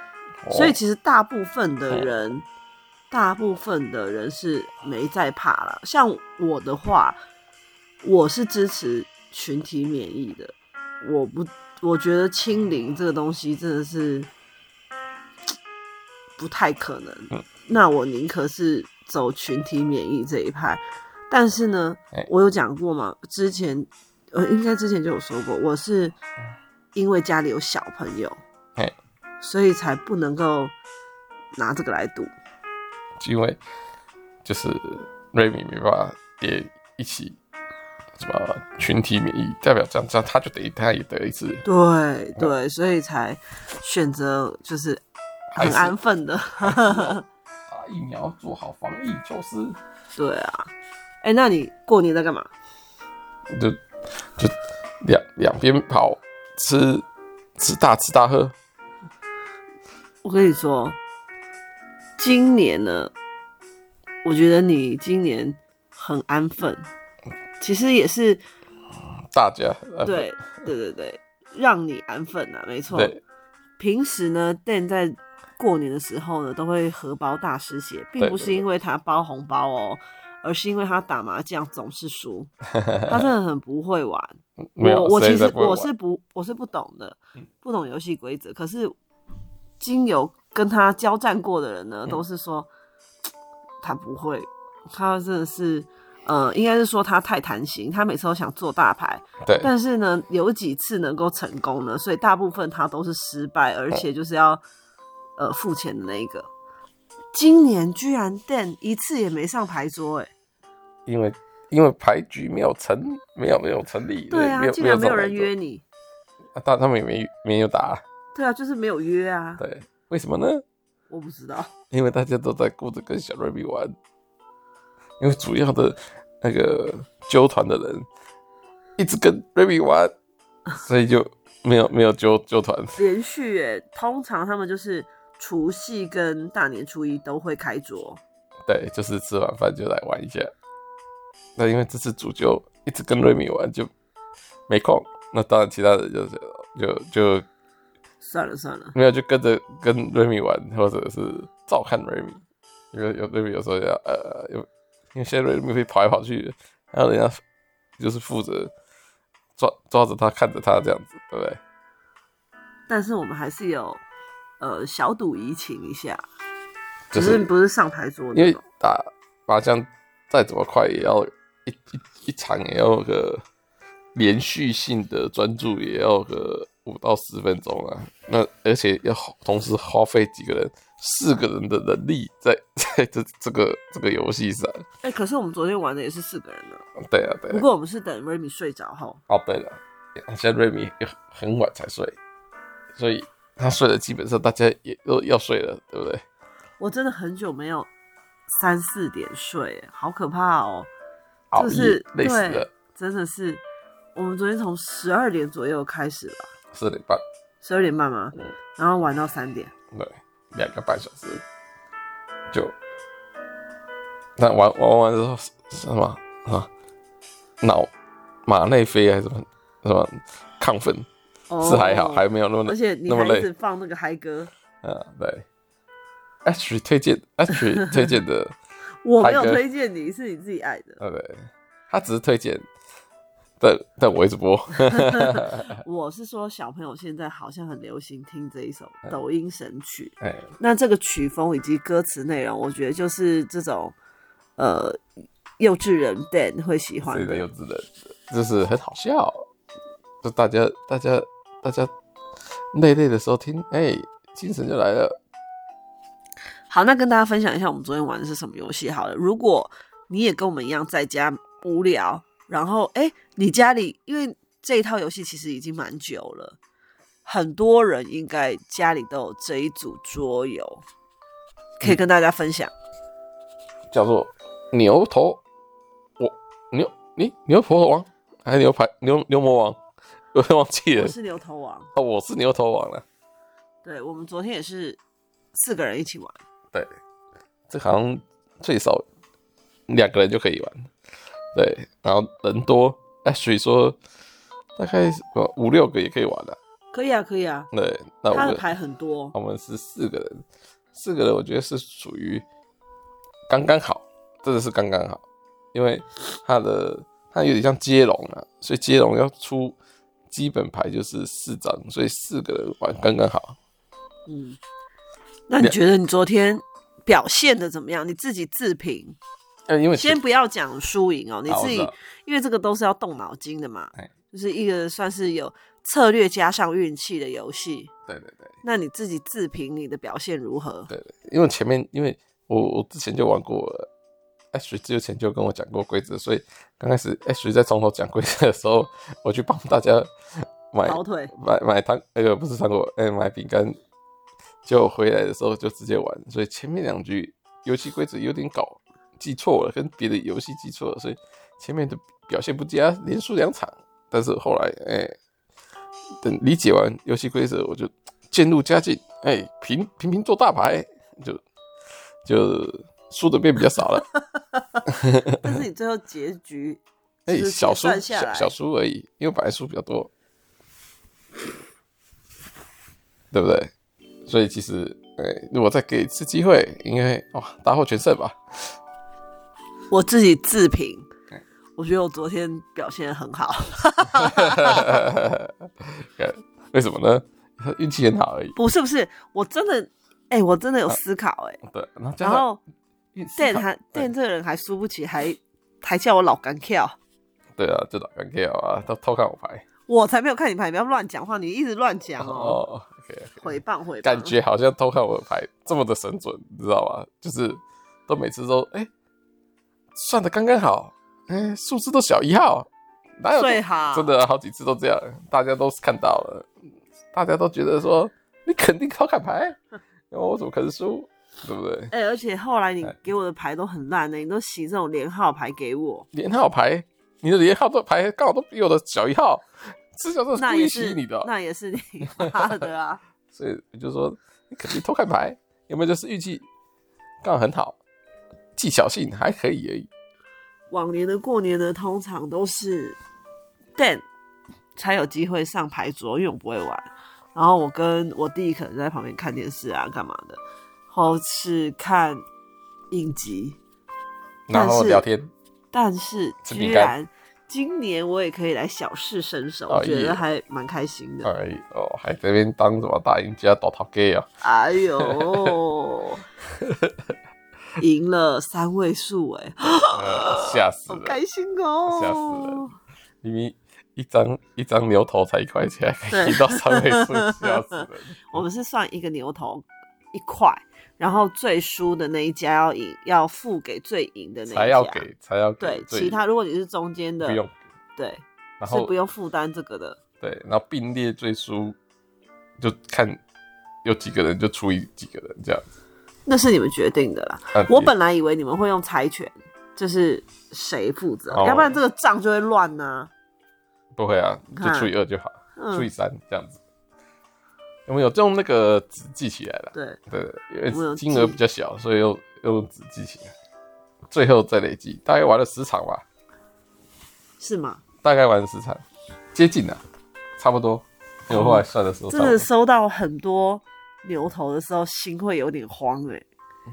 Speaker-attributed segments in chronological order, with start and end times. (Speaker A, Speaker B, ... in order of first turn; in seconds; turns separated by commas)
Speaker A: 0.4-0.8, Speaker B: 0.5-2.5, Speaker B: 3.1-7.2, Speaker B: 8.0-14.3, Speaker B: 16.4-26.1, Speaker B: 26.9-28.4, Speaker B: 29.4-30.7, Speaker B: 31.6-32.3, Speaker A: 33.2-33.6, Speaker A: 34.4-37.4, Speaker A: 38.2-41.6, Speaker B: 41.6-45.0, Speaker A: 45.5-45.9, Speaker B: 45.5-47.2, Speaker A: 46.6-47.2, Speaker A: 47.7-49.8, Speaker B: 50.1-50.7, Speaker B: 51.2-52.5, Speaker A: 53.5-53.8, Speaker A: 54.4-57.0, Speaker A: 57.6-58.5, Speaker B: 60.2-61.0, Speaker B: 62.2-63.1, Speaker B: 64.2-66.9, Speaker B: 67.6-68.4, Speaker A: 69.0-70.4, Speaker B: 70.0-73.1, Speaker A: 72.9-73.2, Speaker B: 73.8-82.5, Speaker A: 78.2-78.6, Speaker A: 82.8-83.3, Speaker B: 83.1-88.9, Speaker A: 84.7-85.9, Speaker B: 89.8-92.7, Speaker B: 93.8-104.6, Speaker A: 99.4-99.7, Speaker B: 105.4-106.5, Speaker B: 107.3-110.3, Speaker A: 111.1-115.5, Speaker B: 114.3-115.8, Speaker A: 116.5-118.0, Speaker B: 118.3-119.6, Speaker A: 119.6-120.6, Speaker B: 121.1-121.7, Speaker A: 121.9-123.9, Speaker A: 125.2-128.1, Speaker A: 129.0-130.1, Speaker A: 130.7-133.0, Speaker B: 133.0-138.2, Speaker A: 138.7-140.5, Speaker A: 141.6-143.9, Speaker A: 144.7-147.4, Speaker B: 148.2-148.9, Speaker A: 148.9-152.4, Speaker A: 152.9-157.4, Speaker A: 158.0-158.7, Speaker A: 159.6-161.6, Speaker B: 162.9-164.0, Speaker B: 164.6-166.2, Speaker A: 167.1-167.5, Speaker B: 167.1-168.6, Speaker A: 168.3-173.4, Speaker A: 174.1-184.8, Speaker B: 185.0-186.8, Speaker A: 187.1-187.7, Speaker B: 187.5-189.2, Speaker A: 189.3-192.2, Speaker A: 192.9-196.2, Speaker B: 196.8-197.9, Speaker B: 198.5-200.9, Speaker A: 201.5-202.7, Speaker B: 201.5-203.6, Speaker B: 204.1-206.5, Speaker A: 206.7-207.2, Speaker B: 207.6-209.7, Speaker A: 209.9-211.4, Speaker A: 214.4-216.7, Speaker A: 217.6-217.9, Speaker A: 218.4-221.1, Speaker B: 221.5-224.5, Speaker A: 221.6-223.5, Speaker A: 224.8-225.5, Speaker A: 226.4-228.5, Speaker B: 229.0-231.0, Speaker A: 229.2-229.6, Speaker A: 231.0-232.7, Speaker A: 233.6-235.8, Speaker B: 234.8-243.9, Speaker A: 240.2-240.5, Speaker B: 244.6-245.0, Speaker B: 245.6-247.4, Speaker A: 247.1-249.4, Speaker A: 250.2-251.9, Speaker A: 252.7-255.2, Speaker B: 256.7-266.6, Speaker B: 267.2-270.8, Speaker B: 271.8-272.7, Speaker A: 273.9-275.4, Speaker A: 276.2-279.8, Speaker A: 280.3-281.1, Speaker B: 280.9-281.9, Speaker A: 281.9-283.0, Speaker B: 283.8-285.0, Speaker B: 285.5-286.4, Speaker A: 287.7-289.0, Speaker A: 289.9-290.9, Speaker A: 291.5-294.0, Speaker A: 294.8-296.6, Speaker B: 296.9-297.7, Speaker A: 297.7-298.6, Speaker B: 298.3-299.3, Speaker A: 299.3-300.4, Speaker A: 300.9-302.4, Speaker A: 303.5-305.2, Speaker A: 305.7-309.8, Speaker A: 310.3-313.6, Speaker B: 314.3-314.6, Speaker B: 315.5-319.1, Speaker A: 319.7-320.2, Speaker B: 319.9-327.9, Speaker A: 321.5-321.9, Speaker A: 328.1-328.5, Speaker B: 328.6-330.9, Speaker A: 330.9-333.9, Speaker A: 334.5-340.1, Speaker A: 340.7-343.8, Speaker B: 340.8-341.3, Speaker A: 344.6-355.1, Speaker A: 356.2-361.4, Speaker A: 362.2-364.1, Speaker A: 364.9-365.5, Speaker B: 365.4-368.5, Speaker A: 367.3-370.1, Speaker A: 373.3-373.7, Speaker A: 374.3-378.3, Speaker B: 379.9-381.1, Speaker B: 381.8-385.0, Speaker A: 384.2-388.6, Speaker B: 388.6-391.6, Speaker A: 391.6-392.5, Speaker B: 392.2-392.6, Speaker A: 393.1-394.1, Speaker B: 393.4-396.9, Speaker A: 397.6-399.6, Speaker B: 399.9-402.6, Speaker A: 402.2-408.9, Speaker B: 403.4-404.4, Speaker A: 409.9-412.7, Speaker A: 413.2-416.5, Speaker B: 413.3-414.1, Speaker A: 417.1-419.6, Speaker A: 420.1-421.9, Speaker B: 421.9-426.1, Speaker A: 426.1-431.3, Speaker B: 430.3-433.0, Speaker A: 432.2-432.6, Speaker A: 433.3-436.4, Speaker A: 437.2-437.8, Speaker A: 438.6-439.9, Speaker B: 440.7-443.0, Speaker B: 443.8-444.1, Speaker B: 444.8-452.2, Speaker B: 452.9-453.6, Speaker A: 454.5-455.3, Speaker B: 454.5-455.1, Speaker B: 455.7-461.3, Speaker A: 456.4-456.9, Speaker A: 459.7-460.2, Speaker A: 461.2-464.3, Speaker B: 464.4-466.2, Speaker A: 465.0-465.5, Speaker A: 466.6-466.9, Speaker B: 467.8-472.7, Speaker A: 469.9-471.2, Speaker A: 471.9-472.6, Speaker A: 473.2-478.4, Speaker B: 476.1-485.1, Speaker A: 484.5-486.2, Speaker B: 485.6-487.4, Speaker A: 487.2-487.6, Speaker B: 488.0-490.0, Speaker A: 488.6-488.9, Speaker A: 490.2-491.8, Speaker A: 492.6-493.2, Speaker A: 493.8-495.7, Speaker B: 496.2-503.1, Speaker A: 497.5-497.9, Speaker A: 501.3-501.8, Speaker A: 503.9-506.6, Speaker B: 504.5-504.9, Speaker B: 505.6-505.9, Speaker A: 507.9-513.3, Speaker B: 509.7-510.0, Speaker B: 510.7-511.4, Speaker A: 514.1-516.0, Speaker B: 517.4-517.8, Speaker A: 518.0-518.8, Speaker A: 519.3-519.8, Speaker A: 520.4-522.5, Speaker B: 521.3-526.2